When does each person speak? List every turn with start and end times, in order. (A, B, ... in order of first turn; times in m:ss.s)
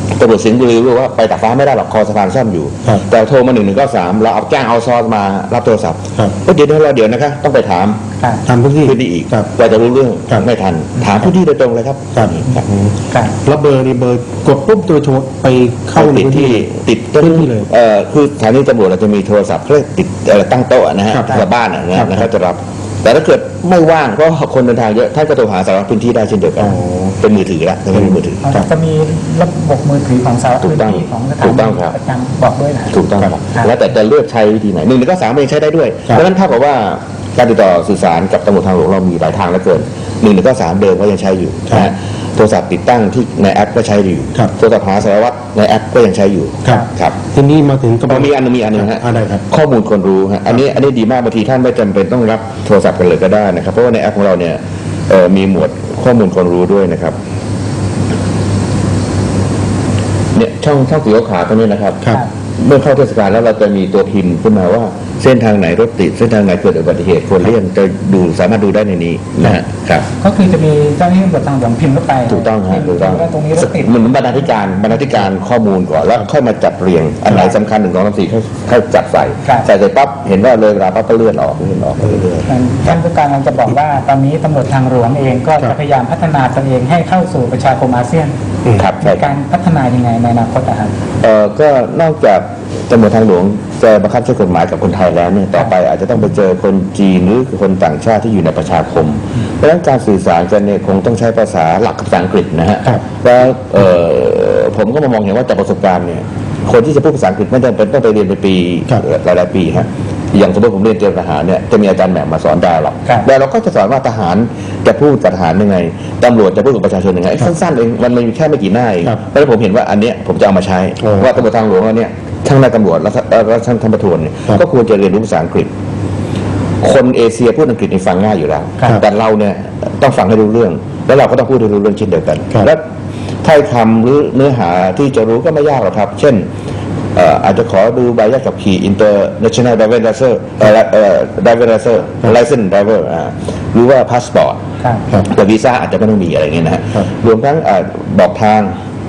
0:00.1-0:08.0 A
0:08.4-0:09.5 B
0:08.8-0:12.7 A
0:12.2-0:16.7 B
0:16.0-0:28.4 A
0:17.2-0:17.7 B
0:21.1-0:21.4 B
0:22.0-0:22.3 B
0:26.6-0:27.2 B
0:28.0-0:28.6 B
0:28.4-0:32.9 C
0:30.6-0:31.9 A
0:32.9-0:47.2 A
0:46.6-0:49.4 B
0:48.1-0:57.2 A
1:00.3-1:02.0 A
1:02.6-1:10.1 A
1:10.2-1:14.2 C
1:12.3-1:22.5 A
1:22.5-1:28.3 C
1:28.8-1:29.3 A
1:29.0-1:30.9 C
1:31.2-2:05.7 A
2:01.0-2:01.3 B
2:06.8-2:12.8 A
2:13.4-2:16.5 A
2:17.1-2:24.6 A
2:25.2-2:28.7 A